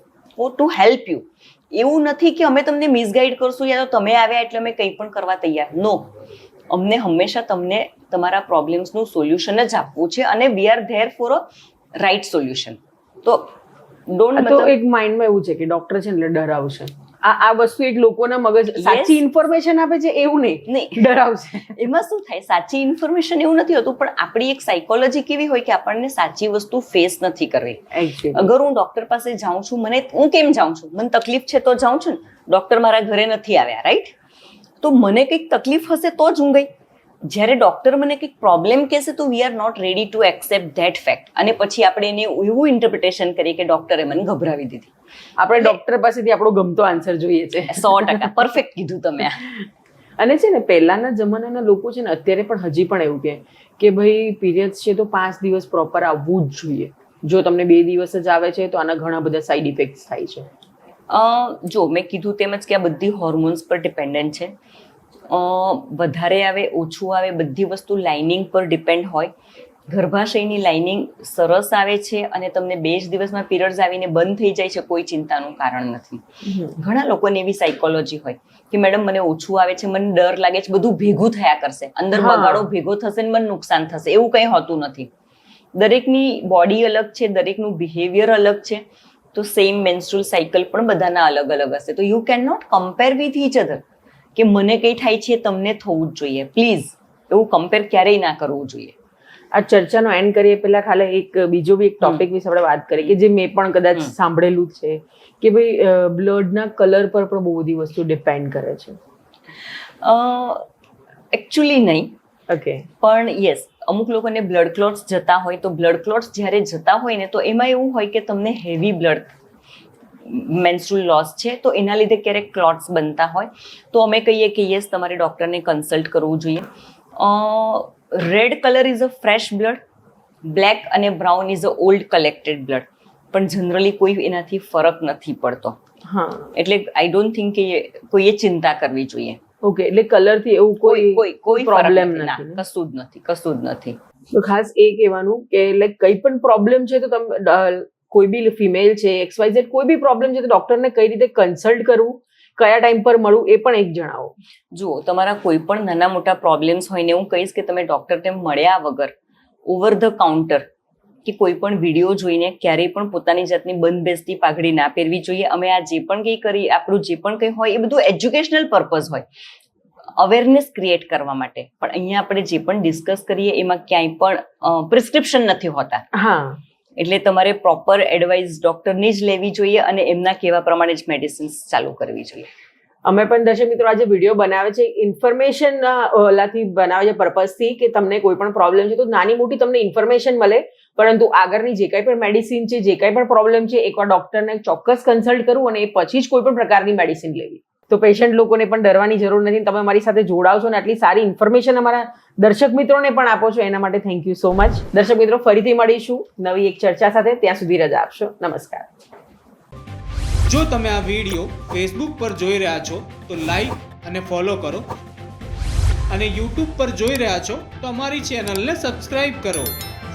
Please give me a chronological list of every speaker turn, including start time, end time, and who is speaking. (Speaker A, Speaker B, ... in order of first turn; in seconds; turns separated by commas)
Speaker A: 0.4-6.1, Speaker A: 6.7-11.4, Speaker A: 12.0-13.6, Speaker A: 14.1-14.7, Speaker B: 14.4-21.8, Speaker A: 18.8-19.2, Speaker A: 20.7-21.2, Speaker A: 21.7-34.1, Speaker B: 27.9-28.5, Speaker A: 34.8-36.7, Speaker A: 37.2-44.9, Speaker B: 45.4-48.4, Speaker A: 47.7-49.4, Speaker B: 50.2-60.5, Speaker A: 61.1-64.5, Speaker A: 65.3-69.3, Speaker A: 69.9-85.1, Speaker B: 76.5-76.8, Speaker B: 82.2-82.7, Speaker A: 85.8-93.8, Speaker A: 94.3-99.0, Speaker B: 99.5-109.0, Speaker A: 110.0-110.7, Speaker A: 111.3-112.1, Speaker B: 112.5-112.9, Speaker A: 113.0-119.3, Speaker A: 120.2-129.8, Speaker A: 130.4-135.8, Speaker B: 136.1-136.5, Speaker A: 136.6-139.4, Speaker B: 139.6-142.6, Speaker A: 140.8-144.0, Speaker B: 144.3-154.3, Speaker A: 154.7-159.2, Speaker A: 159.7-160.7, Speaker A: 161.2-169.3, Speaker A: 170.2-176.0, Speaker B: 176.1-176.6, Speaker A: 177.0-182.5, Speaker B: 183.1-208.9, Speaker C: 210.5-214.9, Speaker C: 216.1-219.8